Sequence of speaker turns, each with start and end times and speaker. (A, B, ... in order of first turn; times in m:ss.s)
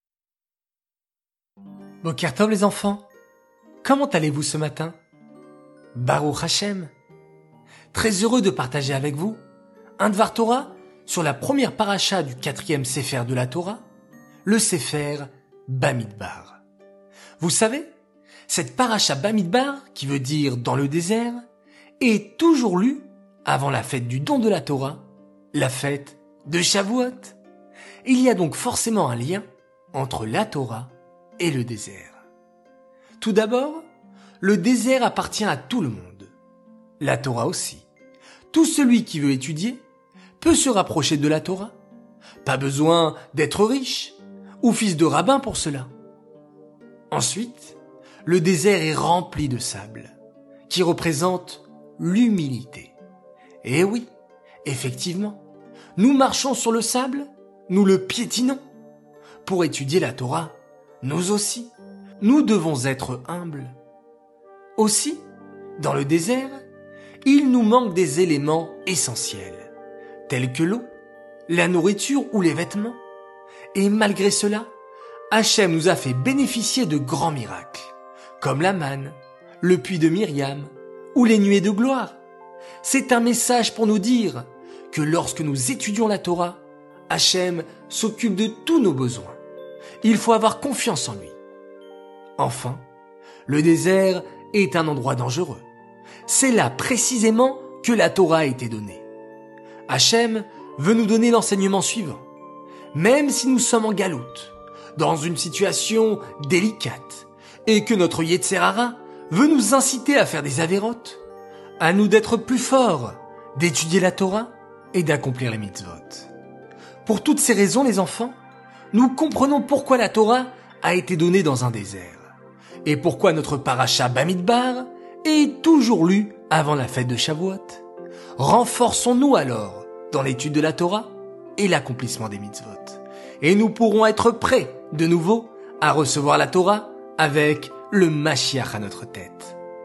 0:02.0-0:03.1 A
0:03.8-0:05.0 A
0:06.0-0:06.9 A
0:07.9-0:09.4 A
0:10.0-0:13.8 A
0:14.4-0:16.6 A
0:17.4-0:17.9 A
0:18.5-0:21.4 A
0:22.0-0:27.4 A
0:28.0-0:32.2 A
0:33.2-0:33.9 A
0:34.4-0:36.3 A
0:37.0-0:37.9 A
0:38.5-0:39.8 A
0:40.4-0:41.8 A
0:42.4-0:45.9 A
0:47.1-0:50.2 A
0:50.7-0:53.0 A
0:53.6-0:54.1 A
0:54.6-0:55.4 A
0:56.0-0:58.6 A
0:59.4-1:03.8 A
1:04.8-1:05.2 A
1:05.8-1:06.6 A
1:07.2-1:09.7 A
1:10.3-1:10.9 A
1:11.5-1:13.0 A
1:13.7-1:14.7 A
1:15.3-1:22.2 A
1:22.8-1:29.4 A
1:30.0-1:31.4 A
1:32.4-1:32.8 A
1:33.5-1:35.6 A
1:36.3-1:39.0 A
1:39.9-1:42.2 A
1:42.9-1:51.2 A
1:51.8-1:56.3 A
1:57.0-1:58.4 A
1:58.9-2:02.3 A
2:02.8-2:07.8 A
2:08.4-2:19.6 A